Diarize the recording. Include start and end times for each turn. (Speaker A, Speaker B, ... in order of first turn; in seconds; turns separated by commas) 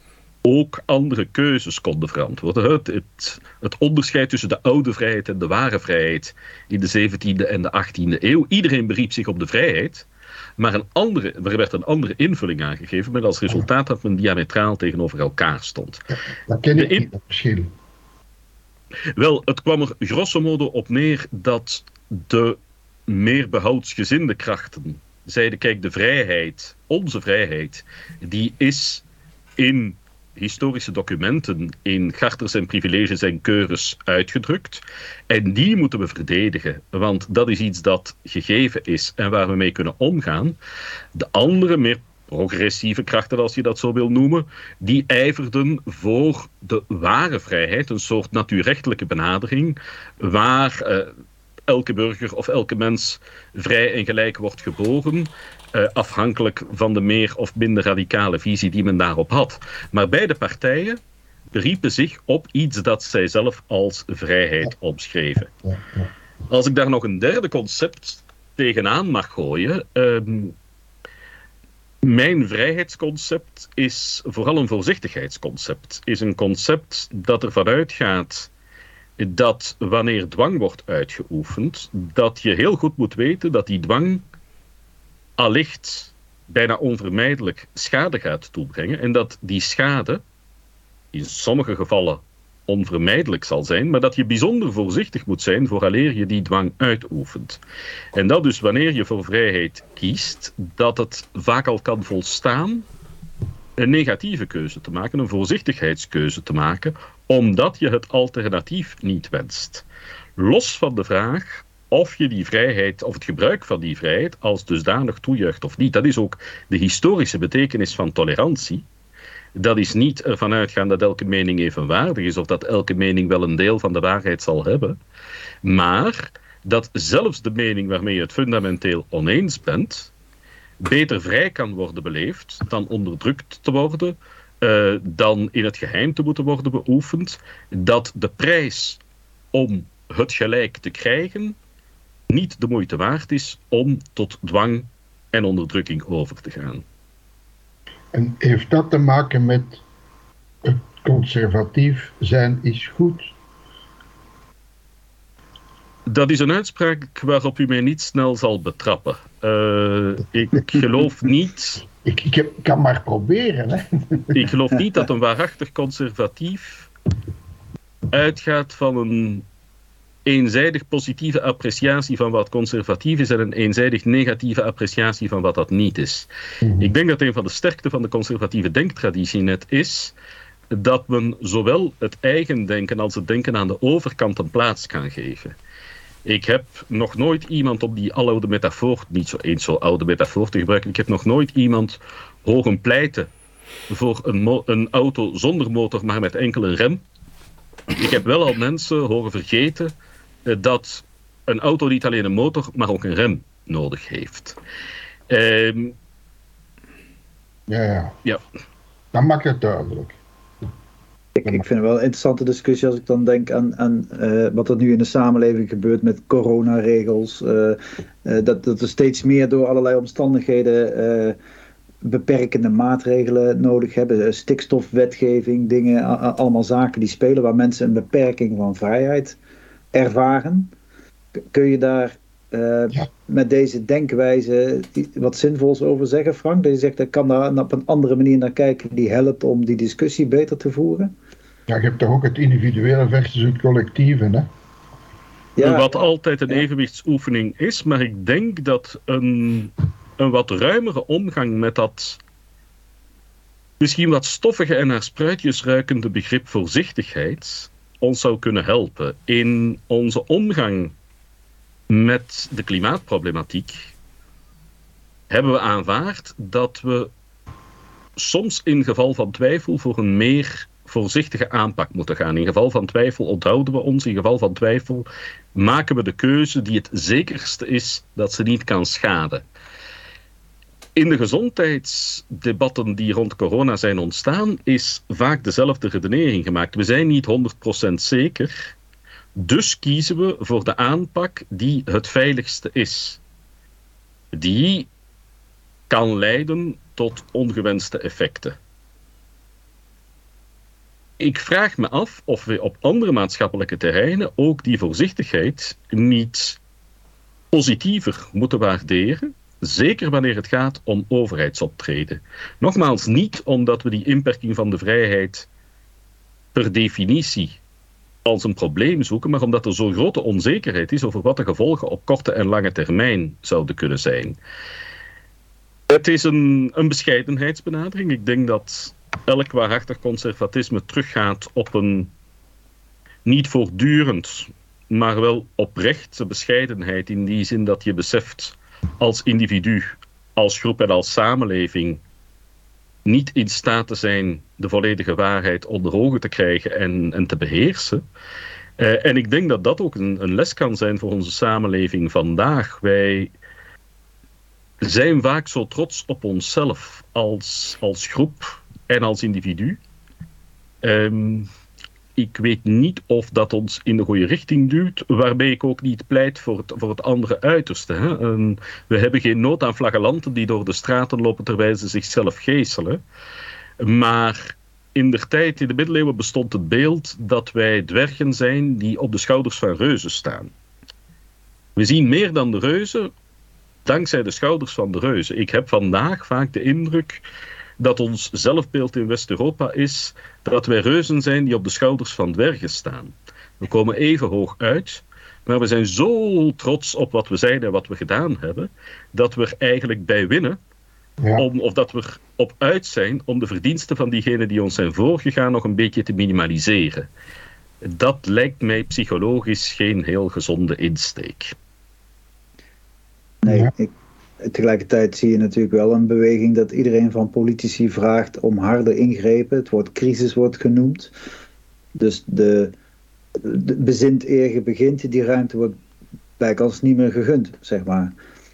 Speaker A: 0.4-16.0, Speaker B: 16.5-17.7, Speaker A: 16.7-17.1, Speaker A: 19.1-29.0, Speaker A: 29.6-40.6, Speaker A: 41.1-51.1, Speaker A: 51.7-61.0, Speaker A: 61.5-65.5, Speaker B: 65.6-66.1, Speaker A: 66.5-70.5, Speaker A: 72.0-78.5, Speaker A: 79.2-84.2, Speaker A: 85.4-90.2, Speaker A: 91.1-97.6, Speaker A: 98.1-102.9, Speaker A: 103.8-109.8, Speaker A: 110.4-118.8, Speaker A: 119.5-125.0, Speaker A: 125.6-130.1, Speaker A: 130.8-139.0, Speaker A: 139.5-141.6, Speaker A: 142.3-146.8, Speaker B: 148.1-149.8, Speaker B: 150.6-153.3, Speaker A: 156.1-161.8, Speaker B: 161.9-164.4, Speaker A: 164.3-166.9, Speaker A: 168.1-169.4, Speaker A: 170.2-176.3, Speaker B: 176.6-176.9, Speaker A: 176.8-180.1, Speaker A: 180.7-185.6, Speaker A: 186.2-193.3, Speaker A: 193.9-197.0, Speaker A: 197.9-199.9, Speaker A: 200.4-204.6, Speaker A: 205.3-205.9, Speaker B: 207.7-208.1, Speaker B: 209.1-210.2, Speaker C: 211.3-221.3, Speaker C: 222.0-229.4, Speaker C: 229.9-230.7, Speaker C: 231.4-241.1, Speaker B: 241.7-244.5, Speaker C: 245.6-245.9, Speaker A: 245.6-252.2, Speaker A: 253.8-260.9, Speaker A: 261.9-263.9, Speaker A: 265.3-267.1, Speaker A: 268.2-279.4, Speaker A: 280.9-288.7, Speaker A: 289.4-293.2, Speaker A: 294.3-294.9, Speaker A: 295.9-298.6, Speaker A: 301.2-306.6, Speaker A: 307.5-315.5, Speaker A: 316.5-317.6, Speaker A: 318.2-324.4, Speaker A: 325.9-332.1, Speaker A: 333.2-342.0, Speaker A: 343.0-348.0, Speaker A: 348.8-353.3, Speaker A: 354.8-359.8, Speaker A: 360.8-361.5, Speaker A: 362.1-373.0, Speaker A: 373.8-380.5, Speaker A: 381.8-383.1, Speaker A: 383.8-387.2, Speaker A: 387.8-400.6, Speaker B: 401.2-401.4, Speaker A: 401.4-407.1, Speaker A: 407.8-411.5, Speaker C: 413.4-421.1, Speaker B: 413.4-413.7, Speaker C: 421.9-422.7, Speaker C: 423.4-425.8, Speaker C: 426.4-428.1